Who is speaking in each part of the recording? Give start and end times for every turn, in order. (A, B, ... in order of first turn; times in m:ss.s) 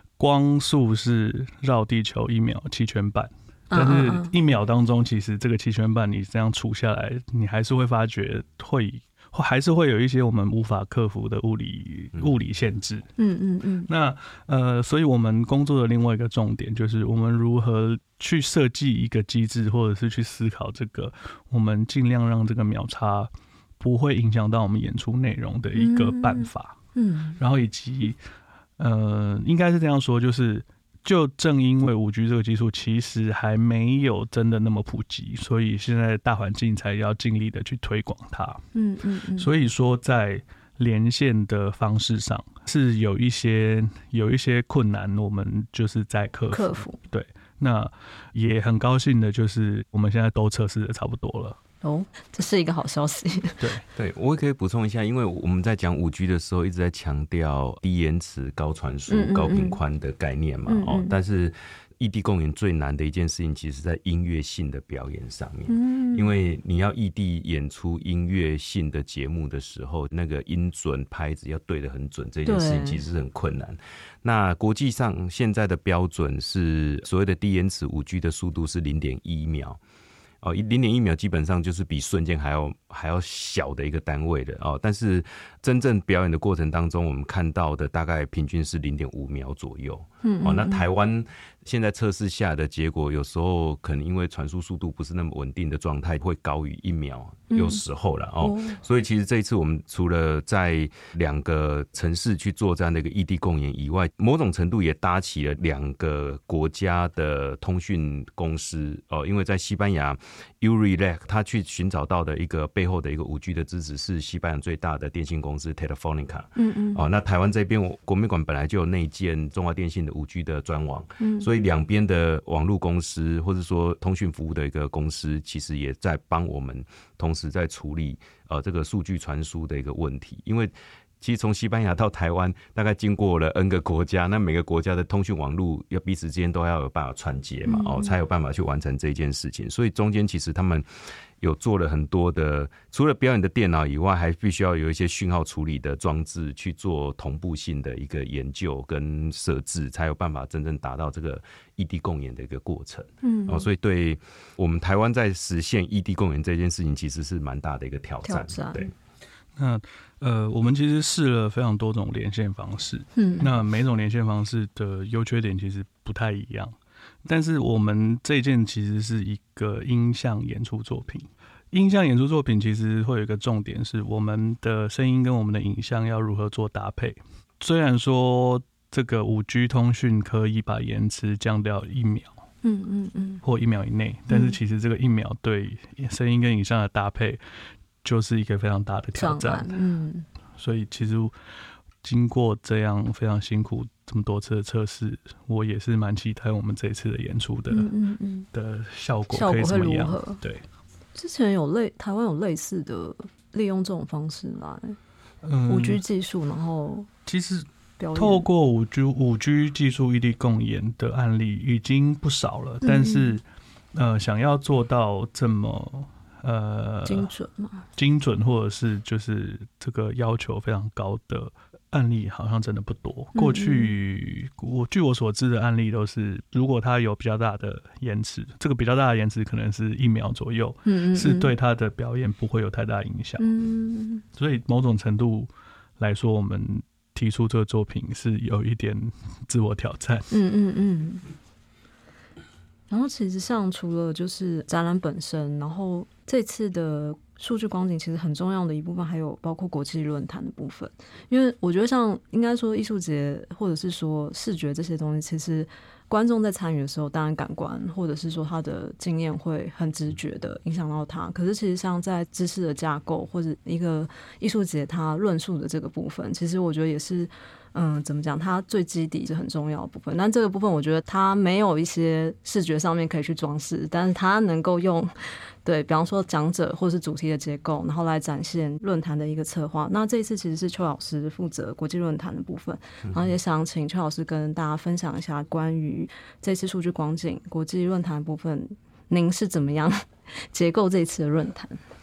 0:00.2-0:13.1 A
0:03.7-0:04.4 B
0:13.2-0:13.9 B
0:13.9-0:26.8 A
0:25.8-0:27.4 B
0:27.4-0:28.2 A
0:28.8-0:38.7 A
0:38.8-0:39.5 B
0:39.4-0:51.6 A
0:46.5-0:47.0 B
0:51.8-0:53.6 B
0:53.6-0:53.8 A
0:54.0-1:19.8 C
0:59.1-0:59.8 B
1:00.7-1:01.1 B
1:05.7-1:06.3 B
1:12.4-1:13.0 B
1:20.4-2:20.9 C
1:30.2-1:30.9 B
1:37.5-1:37.8 B
1:38.4-1:38.8 B
1:56.6-1:57.0 B
2:01.2-2:01.5 B
2:17.6-2:18.1 B
2:21.4-2:38.9 C
2:33.2-2:33.7 B
2:38.3-2:38.9 B
2:39.6-3:02.3 A
2:43.2-2:43.5 B
3:02.6-3:03.4 B
3:03.4-3:07.4 A
3:04.3-3:04.6 B
3:08.0-3:09.8 A
3:09.2-3:10.3 B
3:10.6-3:11.3 A
3:12.0-3:17.9 A
3:17.7-3:18.5 B
3:18.5-3:20.7 A
3:19.3-3:20.4 B
3:21.2-3:25.0 B
3:25.4-3:26.0 A
3:25.7-3:27.1 B
3:27.3-3:33.4 A
3:28.0-3:28.5 B
3:32.8-3:33.4 B
3:33.9-3:37.3 A
3:37.0-3:37.9 B
3:38.0-3:53.5 A
3:43.4-3:44.0 B
3:50.9-3:51.5 B
3:53.4-3:54.2 B
3:54.3-4:00.3 A
4:00.3-4:01.3 B
4:02.9-4:51.8 B